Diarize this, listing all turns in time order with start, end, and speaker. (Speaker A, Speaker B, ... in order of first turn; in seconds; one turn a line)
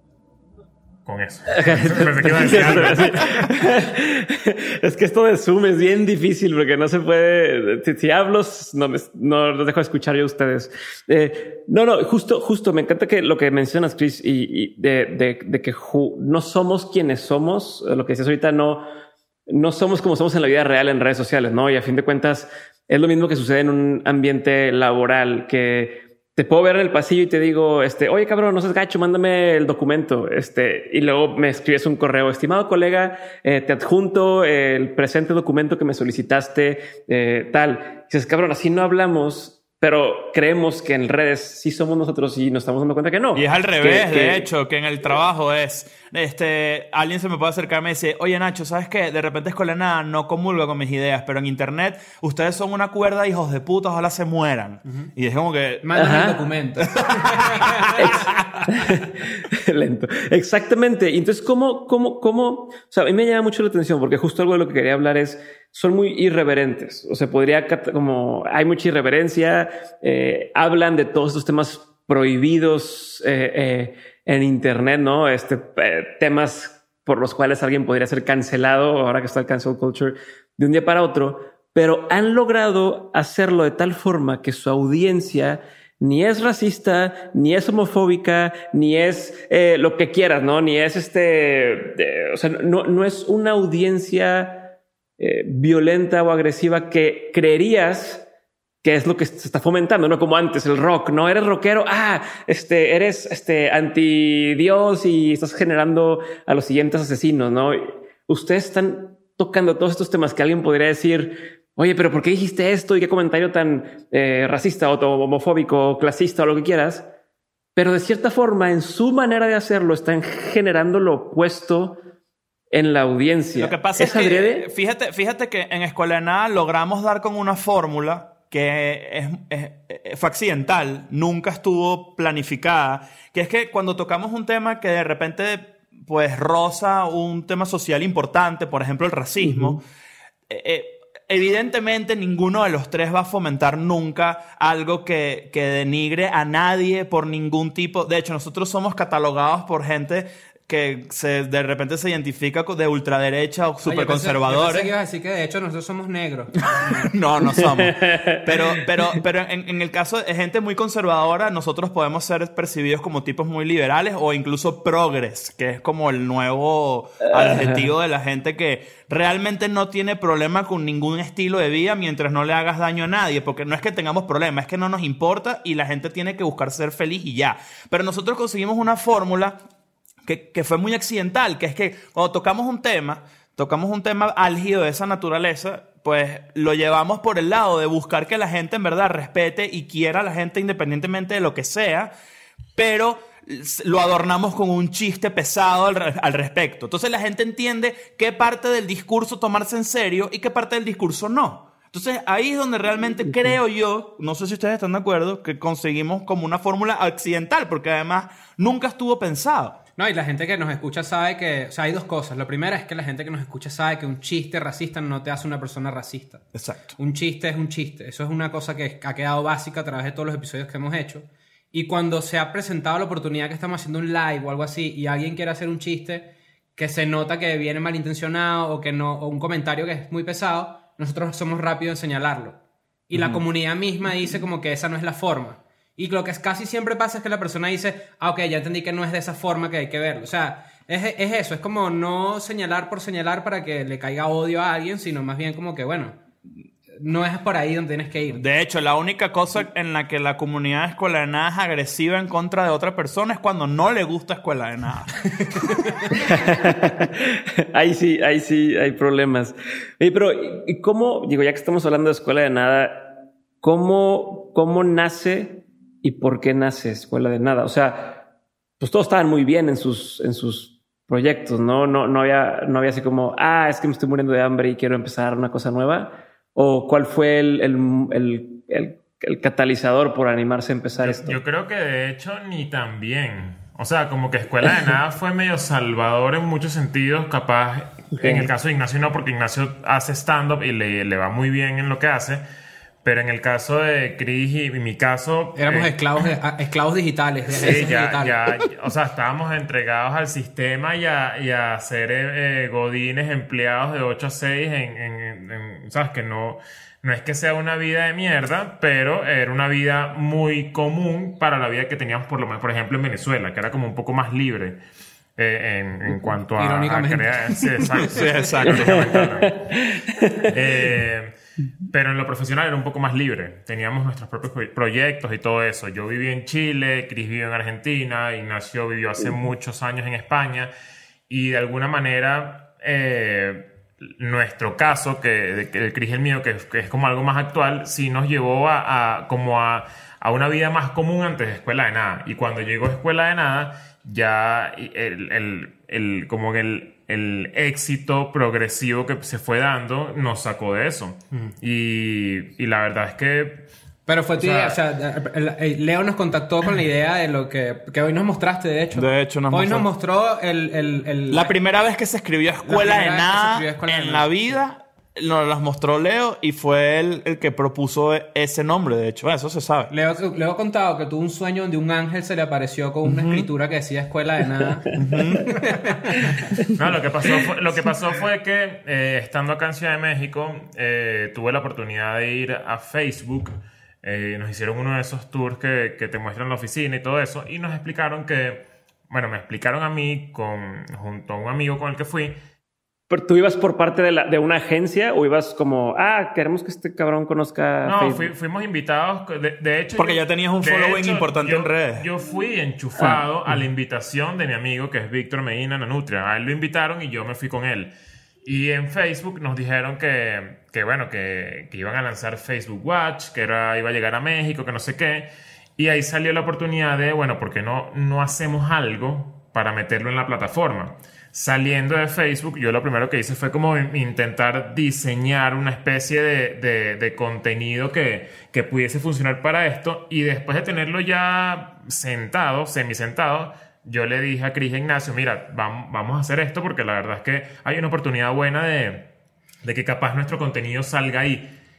Speaker A: 1.1-3.5
Speaker B: 1.5-18.9
Speaker B: 19.5-44.5
Speaker C: 43.4-56.2
Speaker D: 55.8-58.0
Speaker B: 56.0-56.4
Speaker C: 57.0-58.3
Speaker B: 58.0-98.2
Speaker B: 98.8-117.1
Speaker B: 117.8-122.0
Speaker B: 122.7-124.7
Speaker C: 123.6-139.8
Speaker B: 139.4-139.8
Speaker C: 140.5-154.9
Speaker D: 153.8-157.1
Speaker C: 156.7-179.6
Speaker B: 157.4-158.6
Speaker B: 167.3-167.9
Speaker C: 180.2-192.1
Speaker C: 192.8-209.8
Speaker D: 210.0-232.6
Speaker C: 216.6-216.9
Speaker D: 233.1-246.2
Speaker C: 233.1-233.4
Speaker D: 247.0-248.4
Speaker C: 248.3-255.8
Speaker B: 256.1-268.2
Speaker B: 268.8-281.4
Speaker A: 281.0-292.4
Speaker B: 288.2-288.5
Speaker A: 293.0-295.9
Speaker D: 295.6-298.4
Speaker A: 297.6-314.8
Speaker A: 315.4-319.8
Speaker D: 316.6-317.9
Speaker C: 318.0-319.1
Speaker B: 318.7-320.5
Speaker A: 320.5-321.4
Speaker A: 321.9-330.7
Speaker A: 331.3-353.7
Speaker D: 354.1-361.5
Speaker A: 354.4-354.8
Speaker C: 358.9-359.9
Speaker C: 361.3-369.9
Speaker D: 362.6-364.6
Speaker D: 369.9-374.9
Speaker C: 373.1-373.5
Speaker C: 375.0-375.6
Speaker D: 375.6-376.3
Speaker A: 376.7-392.4
Speaker B: 393.1-398.3
Speaker A: 397.9-407.9
Speaker C: 400.0-402.1
Speaker A: 408.4-439.1
Speaker A: 439.6-441.5